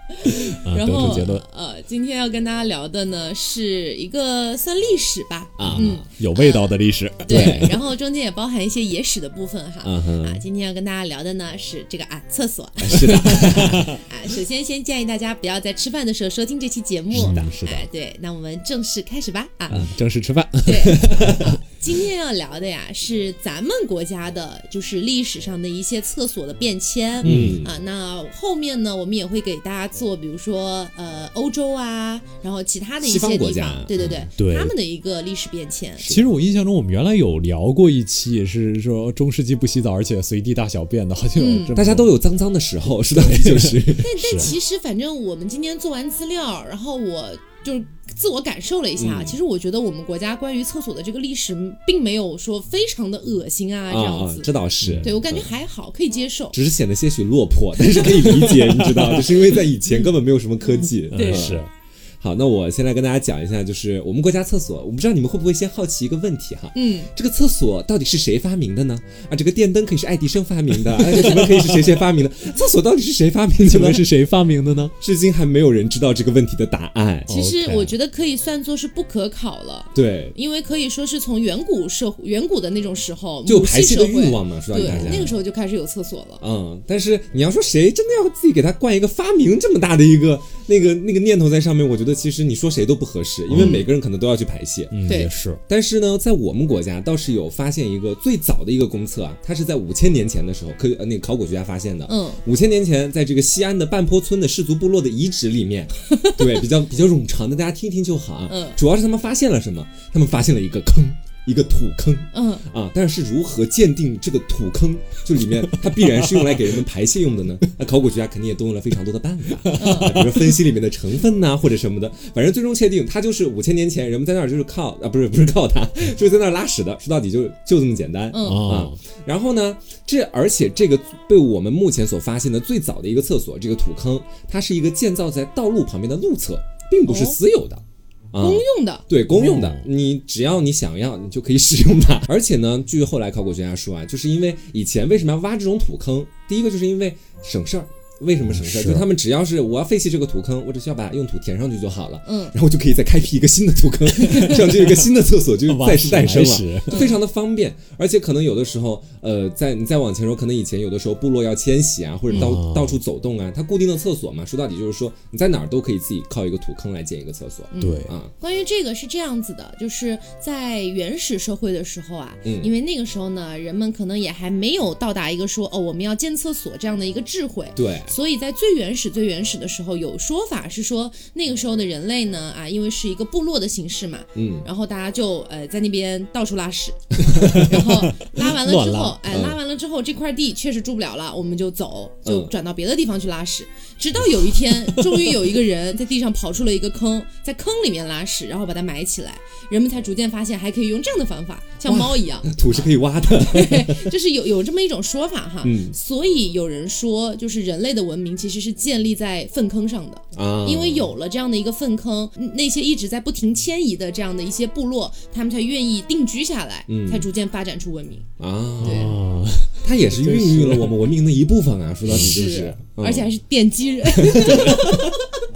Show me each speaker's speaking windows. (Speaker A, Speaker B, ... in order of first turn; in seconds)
Speaker A: 0.1-19.9, 20.6-36.1, 41.4-41.8, 44.0-56.6, 61.1-61.6, 66.8-67.1, 77.3-86.4, 93.6-93.8, 95.1-95.3, 102.1-102.4, 106.0-106.6, 108.5-108.8, 112.3-112.7, 119.8-120.2, 128.3-128.7, 137.1-137.4, 138.4-139.1, 152.3-152.6, 156.9-157.2, 162.3-162.6, 167.7-218.3, 218.8-219.1, 222.1-225.2
Speaker B: 0.6-1.4, 5.6-7.8, 13.0-14.0, 17.1-17.9, 19.7-21.5, 27.2-27.6, 34.0-34.7, 36.0-42.1, 43.0-44.5, 54.8-55.1, 57.9-59.6, 61.1-61.7, 73.6-74.9, 77.3-77.9, 84.8-85.3, 93.5-93.8, 94.9-95.6, 116.3-116.6, 119.7-120.6, 128.4-128.9, 139.3-139.9, 148.4-149.1, 154.2-155.1, 155.7-157.1, 162.3-163.0, 167.8-168.1, 187.5-189.4, 218.8-221.1, 222.1-222.5
Speaker C: 5.6-6.0, 7.3-7.8, 9.8-10.4, 12.8-13.9, 17.2-17.5, 21.1-21.4, 27.2-27.7, 33.0-34.2, 36.0-36.3, 41.8-44.1, 49.0-49.4, 53.9-55.5, 56.5-61.6, 62.2-74.1, 75.0-77.3, 79.9-80.4, 83.5-85.3, 86.4-95.1, 95.7-168.3, 172.4-172.7, 177.8-178.2, 184.4-184.7, 189.3-189.6, 192.2-192.5, 201.8-204.1, 205.6-206.0, 210.3-211.1, 216.9-217.3, 218.4-219.1, 219.8-223.3, 224.2-225.2